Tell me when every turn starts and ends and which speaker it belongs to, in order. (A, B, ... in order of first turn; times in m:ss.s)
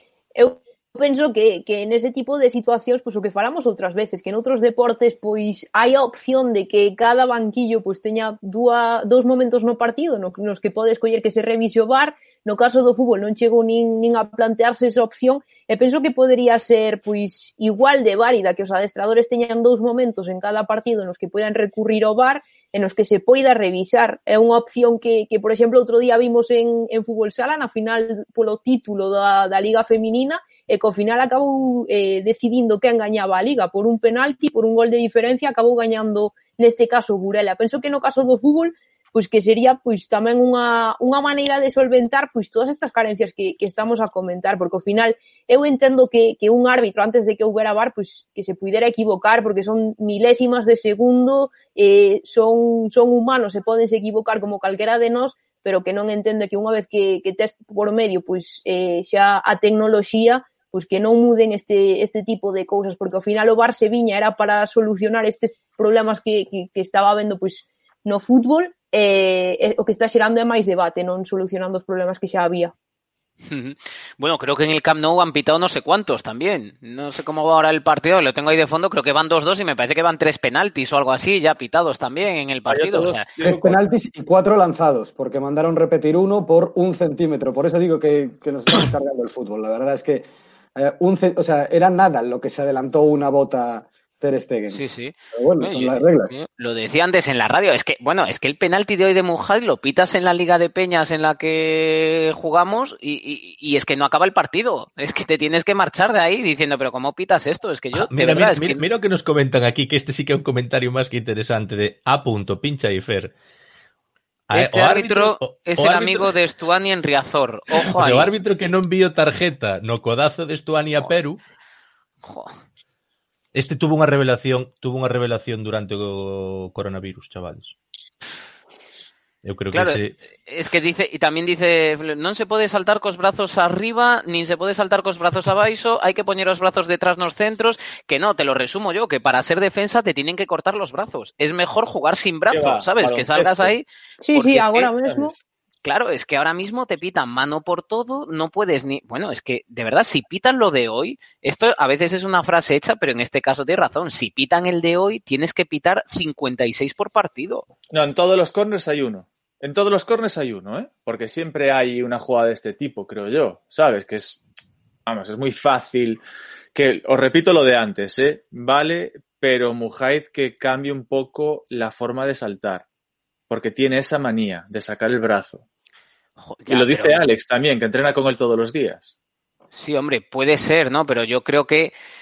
0:00.4-1:12.7 A
1:13.5-1:23.3 B
1:22.7-1:23.8 C
1:23.4-1:34.8 D
1:34.7-1:48.8 B
1:35.3-1:36.3 D
1:47.9-1:53.3 E
1:54.5-1:56.3 E
1:54.5-1:58.3 B
1:57.8-2:01.4 E
2:02.2-2:02.5 B
2:03.5-2:07.7 E
2:09.4-2:10.1 E
2:09.7-2:23.8 B
2:22.5-2:23.8 C
2:24.2-2:25.3 A
2:24.4-2:25.4 C
2:25.8-2:37.7 B
2:37.9-2:44.4 C
2:45.1-2:46.2 C
2:46.7-2:52.8 C
2:53.5-2:55.6 C
2:56.4-2:57.2 B
2:56.7-2:59.1 C
2:59.7-3:01.9 B